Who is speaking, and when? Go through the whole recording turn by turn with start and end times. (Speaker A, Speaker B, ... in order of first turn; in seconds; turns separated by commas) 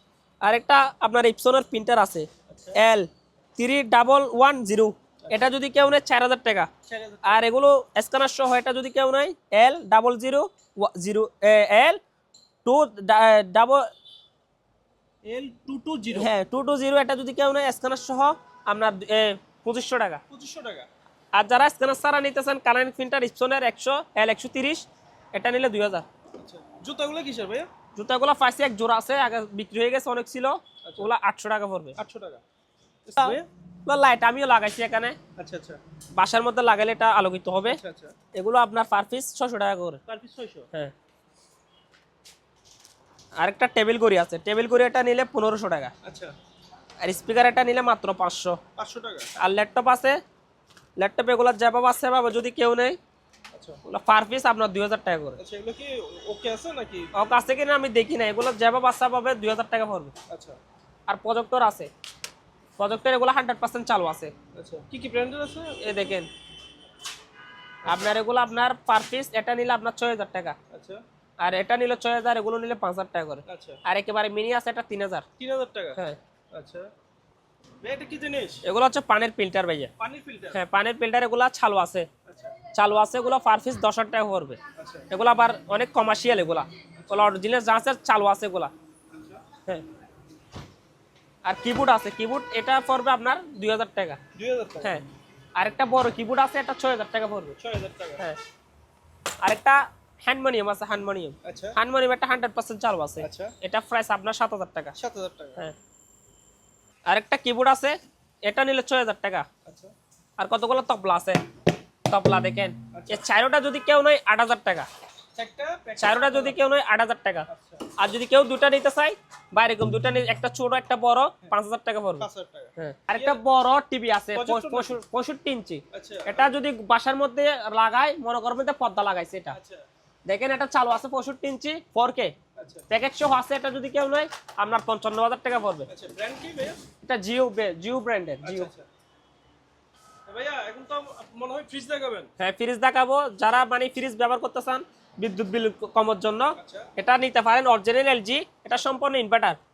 Speaker A: 0.4-6.7, Speaker B: 2.5-2.8, Speaker B: 6.9-7.5, Speaker A: 7.2-12.0, Speaker A: 12.6-13.8, Speaker B: 15.2-16.3, Speaker A: 16.1-20.2, Speaker B: 20.3-20.9, Speaker A: 21.3-26.0, Speaker B: 26.4-27.7, Speaker A: 27.9-31.9, Speaker B: 30.8-31.1, Speaker B: 32.0-32.4, Speaker B: 33.0-33.5, Speaker A: 33.2-35.2, Speaker B: 35.4-35.8, Speaker A: 36.1-37.8, Speaker B: 37.6-38.1, Speaker A: 38.3-40.0, Speaker B: 40.1-40.7, Speaker A: 43.4-45.9, Speaker B: 46.0-46.3, Speaker A: 47.0-48.6, Speaker B: 48.8-49.3, Speaker A: 49.4-50.2, Speaker A: 51.0-53.0, Speaker B: 53.5-53.8, Speaker A: 53.8-55.4, Speaker B: 55.4-57.1, Speaker A: 57.1-60.1, Speaker B: 60.3-60.6, Speaker A: 61.1-61.9, Speaker A: 62.8-64.3, Speaker B: 64.5-66.1, Speaker A: 65.8-66.3, Speaker A: 67.8-70.5, Speaker B: 70.7-71.0, Speaker A: 71.4-75.2, Speaker B: 73.5-73.8, Speaker B: 75.4-76.0, Speaker B: 76.5-76.9, Speaker B: 77.8-78.6, Speaker A: 78.6-79.9, Speaker B: 80.0-80.6, Speaker A: 80.5-82.1, Speaker B: 82.2-82.5, Speaker A: 82.7-84.6, Speaker B: 84.8-85.1, Speaker A: 85.1-88.7, Speaker B: 87.0-87.4, Speaker B: 89.1-89.4, Speaker A: 91.4-94.2, Speaker B: 94.3-95.0, Speaker A: 95.6-97.6, Speaker B: 97.6-98.2, Speaker A: 99.4-104.9, Speaker B: 101.4-101.8, Speaker B: 103.2-103.5, Speaker B: 105.0-105.7, Speaker A: 107.1-109.5, Speaker B: 109.6-109.9, Speaker A: 110.4-111.4, Speaker A: 112.1-114.9, Speaker B: 112.9-113.2, Speaker B: 115.3-116.6, Speaker A: 116.0-117.5, Speaker B: 117.5-117.9, Speaker A: 118.0-129.6, Speaker B: 122.2-123.4, Speaker B: 124.3-125.0, Speaker B: 125.9-126.5, Speaker B: 129.5-129.8, Speaker A: 130.3-132.3, Speaker B: 132.6-132.8, Speaker A: 132.9-135.9, Speaker B: 135.9-136.8, Speaker A: 137.0-138.7, Speaker B: 138.4-138.9, Speaker B: 140.3-142.3, Speaker A: 142.4-149.6, Speaker B: 146.6-146.9